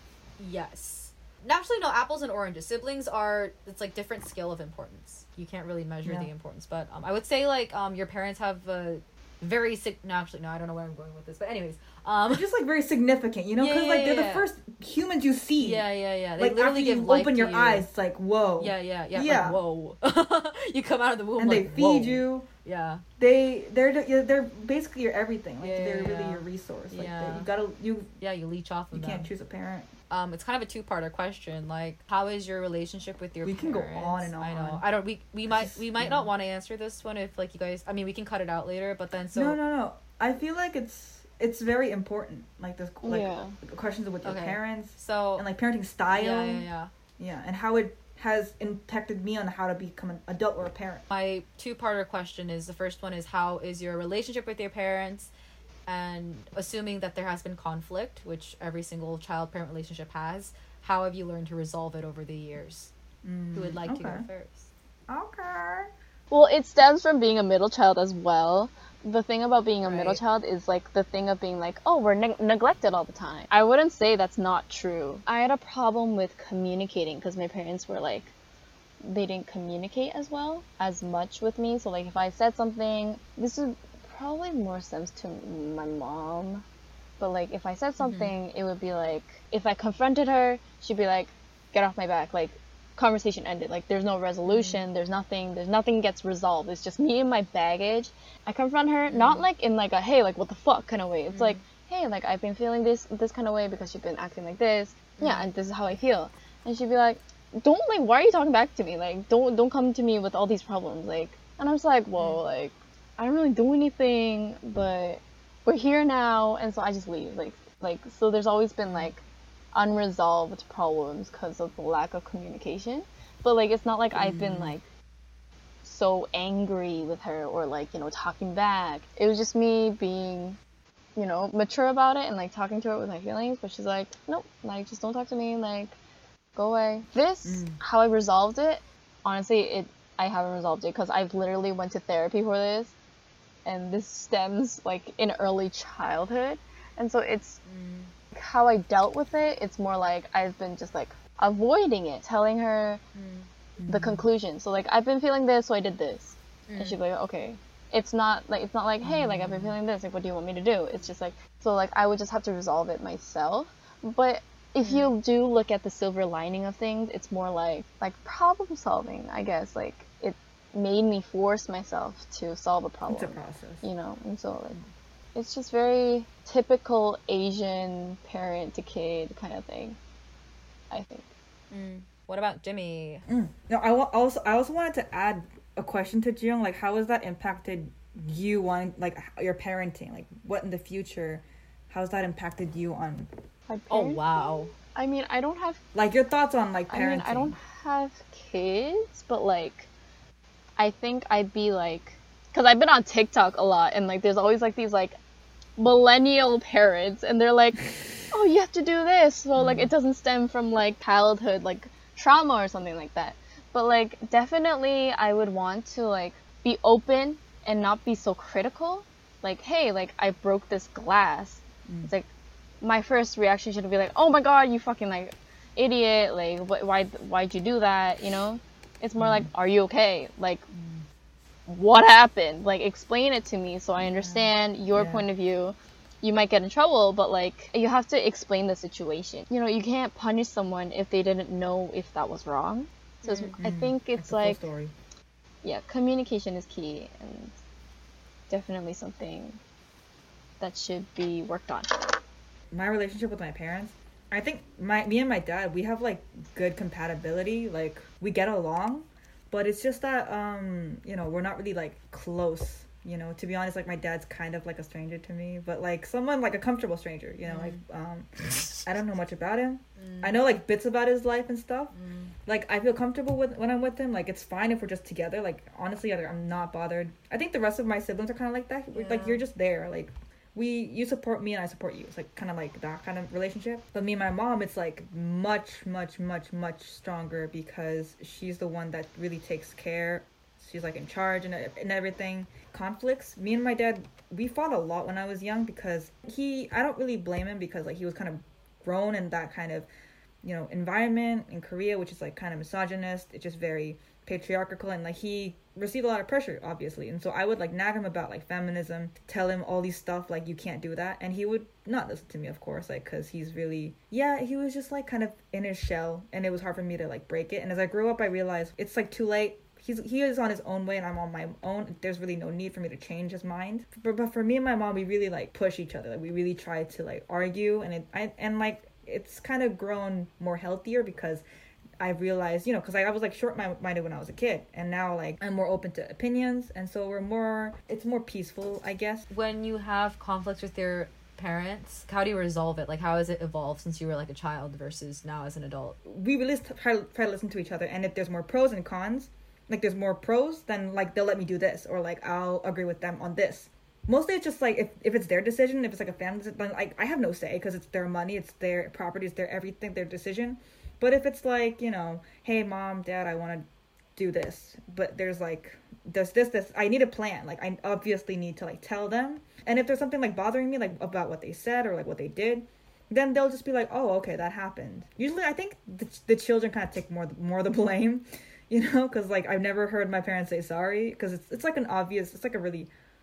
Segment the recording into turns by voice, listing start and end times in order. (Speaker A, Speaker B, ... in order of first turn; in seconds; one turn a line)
Speaker A: 0.4-12.5
Speaker B: 6.0-6.3
Speaker B: 12.3-15.8
Speaker A: 13.6-14.5
Speaker A: 15.6-17.9
Speaker B: 16.4-19.6
Speaker A: 18.6-23.0
Speaker B: 21.4-22.5
Speaker B: 23.2-28.1
Speaker A: 25.6-27.5
Speaker A: 28.2-29.3
Speaker B: 28.9-29.9
Speaker A: 30.1-39.6
Speaker B: 33.4-34.8
Speaker B: 35.5-36.3
Speaker B: 39.3-46.7
Speaker C: 43.0-43.6
Speaker A: 44.2-45.5
Speaker A: 46.1-46.9
Speaker B: 47.2-51.0
Speaker A: 51.1-55.3
Speaker A: 55.9-62.9
Speaker B: 63.2-64.3
Speaker A: 63.5-64.7
Speaker B: 65.1-65.9
Speaker C: 66.3-78.3
Speaker A: 69.8-70.2
Speaker C: 79.0-86.6
Speaker C: 87.2-119.2
Speaker A: 88.0-88.3
Speaker A: 94.5-94.8
Speaker A: 99.1-99.5
Speaker A: 101.3-101.6
Speaker A: 105.2-105.5
Speaker C: 119.7-124.8
Speaker B: 124.2-124.8
Speaker C: 125.8-130.6
Speaker C: 131.2-135.9
Speaker C: 136.6-142.9
Speaker B: 137.4-137.8
Speaker C: 143.7-147.6
Speaker A: 147.7-148.1
Speaker C: 148.3-153.0
Speaker A: 153.2-153.5
Speaker B: 153.8-154.3
Speaker C: 153.9-174.8
Speaker A: 156.7-157.0
Speaker B: 159.0-159.7
Speaker A: 164.8-165.1
Speaker B: 173.1-173.8
Speaker C: 175.3-180.0
Speaker C: 180.9-181.3
Speaker A: 181.7-183.2
Speaker B: 183.3-193.3
Speaker C: 193.7-195.8
Speaker A: 193.9-194.7
Speaker B: 195.9-197.6
Speaker C: 196.9-199.9
Speaker C: 200.8-205.2
Speaker C: 205.8-222.3
Speaker B: 209.6-209.9
Speaker C: 222.8-230.7
Speaker B: 229.2-229.5
Speaker B: 230.7-231.0
Speaker C: 231.7-244.6
Speaker B: 234.0-235.3
Speaker A: 243.2-243.6
Speaker B: 243.6-244.9
Speaker C: 245.6-247.5
Speaker C: 248.5-249.6
Speaker C: 250.6-252.2
Speaker B: 252.7-268.3
Speaker A: 267.4-267.8
Speaker B: 268.8-271.9
Speaker A: 270.0-270.4
Speaker A: 271.9-272.3
Speaker B: 272.5-299.9
Speaker A: 278.9-279.5
Speaker B: 300.4-331.4
Speaker B: 332.0-339.2
Speaker A: 339.3-346.0
Speaker B: 346.1-382.9